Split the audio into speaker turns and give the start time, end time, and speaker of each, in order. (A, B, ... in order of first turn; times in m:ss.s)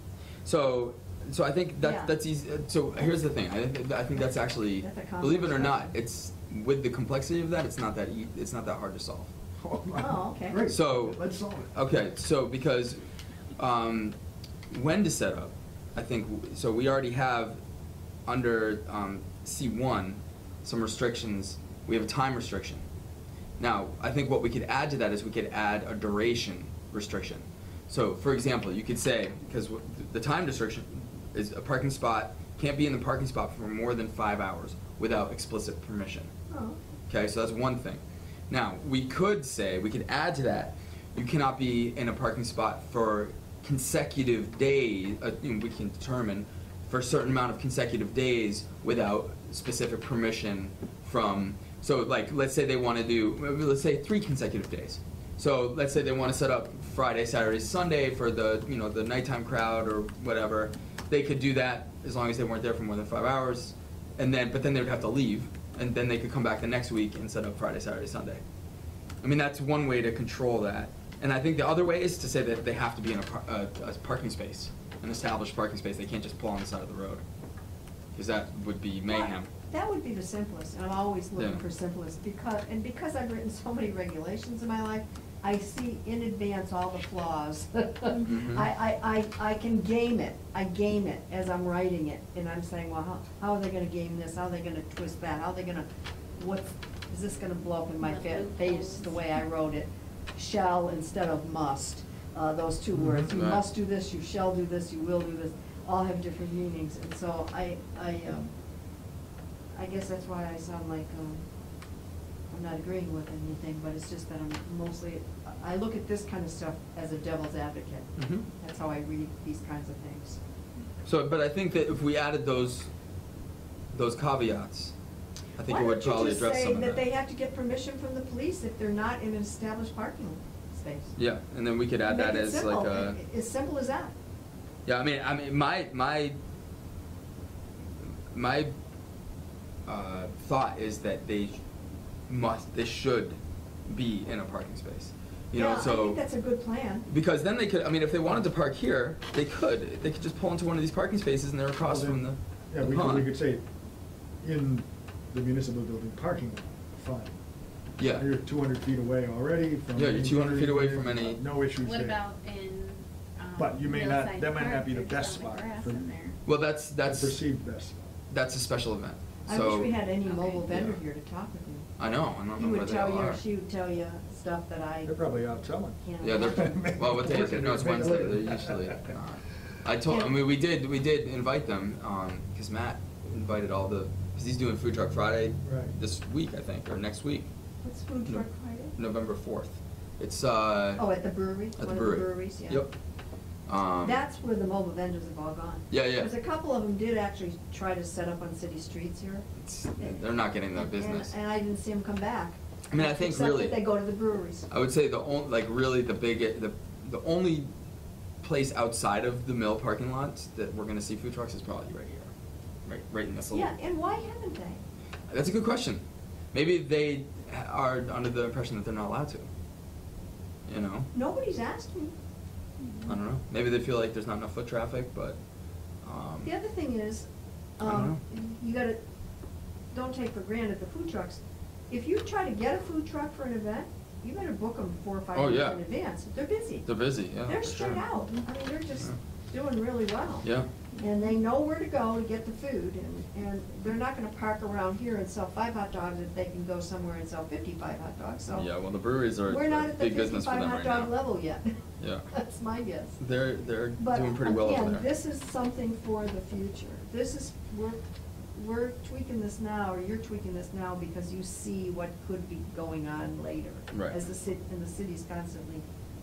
0:00.4-0:09.3 A
0:01.8-0:02.1 B
0:04.8-0:05.9 B
0:09.6-0:11.7 C
0:10.0-0:10.6 B
0:10.7-0:11.2 A
0:11.7-0:13.0 A
0:13.6-0:14.2 A
0:14.7-0:17.6 A
0:18.3-0:22.8 A
0:23.6-0:36.3 A
0:36.5-0:36.8 B
0:37.1-1:08.4 A
1:09.2-1:17.2 A
1:18.1-1:19.5 A
1:19.1-1:48.5 B
1:21.4-1:21.6 A
1:28.2-1:28.7 A
1:38.0-1:39.2 D
1:42.9-1:43.3 C
1:43.3-1:43.6 A
1:49.7-1:51.4 B
1:52.5-2:00.4 B
1:58.2-1:58.4 A
2:01.0-2:02.9 A
2:03.9-2:04.9 A
2:05.6-2:07.0 A
2:05.7-2:11.1 B
2:11.2-2:13.2 A
2:12.0-2:14.1 B
2:14.8-2:16.4 A
2:18.3-2:18.7 A
2:19.8-2:21.6 A
2:22.3-2:26.2 A
2:25.5-2:27.0 B
2:27.1-2:33.3 A
2:31.8-2:33.6 C
2:34.4-2:37.3 C
2:38.0-2:38.3 A
2:38.0-2:42.2 C
2:40.0-2:41.4 A
2:41.8-2:46.4 D
2:43.6-2:46.0 C
2:46.4-2:47.4 A
2:47.0-2:48.1 C
2:48.3-2:50.0 A
2:49.4-2:51.9 B
2:50.2-2:50.6 D
2:50.6-2:51.0 A
2:52.0-2:53.4 A
2:52.6-2:55.1 B
2:55.0-2:59.1 C
2:56.0-2:56.8 B
2:56.2-3:07.5 A
3:00.0-3:00.3 B
3:05.6-3:05.9 C
3:07.8-3:08.9 B
3:09.0-3:11.0 A
3:11.0-3:12.9 B
3:11.8-3:12.9 A
3:13.7-3:14.2 A
3:14.0-3:19.5 B
3:15.9-3:16.3 A
3:19.6-3:21.3 A
3:20.0-3:24.7 B
3:22.9-3:23.8 A
3:24.7-3:27.7 A
3:28.4-3:32.3 A
3:32.8-3:33.7 A
3:33.5-3:34.8 B
3:35.3-3:36.0 A
3:36.5-3:39.5 A
3:40.7-3:41.1 A
3:41.1-3:42.1 B
3:43.0-3:45.4 A
3:46.0-3:46.5 A
3:46.4-3:47.3 B
3:47.8-3:49.0 B
3:47.8-3:48.2 A
3:49.9-3:56.9 B
3:55.3-3:55.8 A
3:56.8-3:58.0 A
3:57.4-4:08.7 B
4:00.4-4:00.7 A
4:08.5-4:11.1 A
4:09.4-4:11.7 B
4:12.0-4:12.2 A
4:12.3-4:13.2 B
4:13.2-4:15.1 A
4:14.0-4:18.0 B
4:18.5-4:25.8 B
4:23.9-4:24.2 A